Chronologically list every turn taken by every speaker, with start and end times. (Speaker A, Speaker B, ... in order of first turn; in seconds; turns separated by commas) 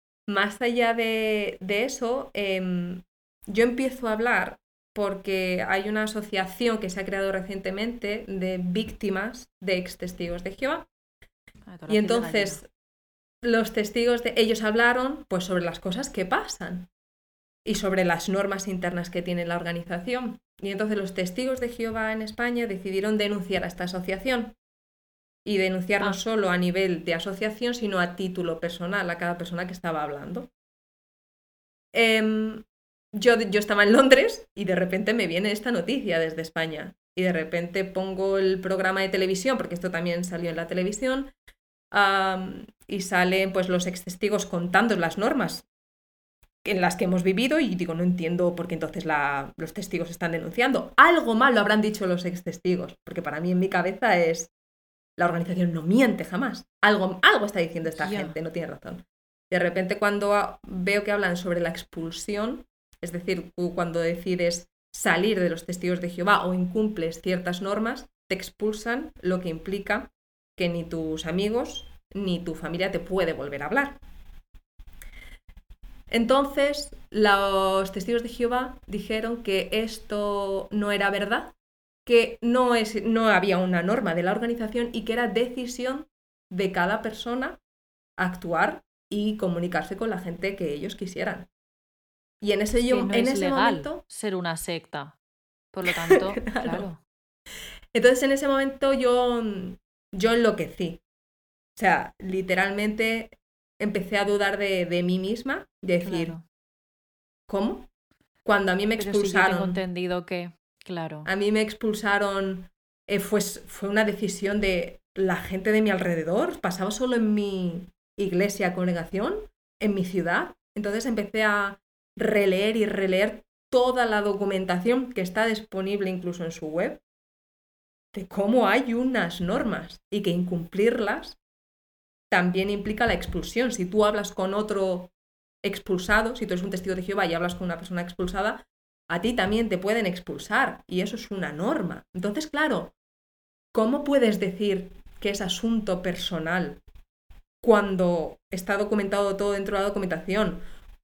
Speaker A: 0.3-10.9, Speaker B: 11.7-12.6, Speaker A: 11.9-12.7, Speaker A: 13.4-16.9, Speaker A: 17.6-24.5, Speaker A: 25.4-30.5, Speaker A: 31.9-41.3, Speaker A: 41.9-45.6, Speaker A: 46.6-54.5, Speaker A: 55.2-74.0, Speaker B: 57.9-58.4, Speaker A: 76.1-81.5, Speaker A: 82.0-87.6, Speaker A: 88.2-91.5, Speaker A: 92.4-94.0, Speaker B: 92.9-95.2, Speaker B: 95.7-97.0, Speaker A: 95.9-96.9, Speaker A: 97.9-101.0, Speaker A: 101.8-106.3, Speaker B: 106.0-106.4, Speaker A: 107.5-107.9, Speaker A: 108.4-109.8, Speaker B: 109.0-111.3, Speaker A: 111.2-127.0, Speaker A: 128.1-131.4, Speaker A: 132.3-135.1, Speaker A: 135.6-142.9, Speaker A: 143.7-146.8, Speaker A: 147.6-150.6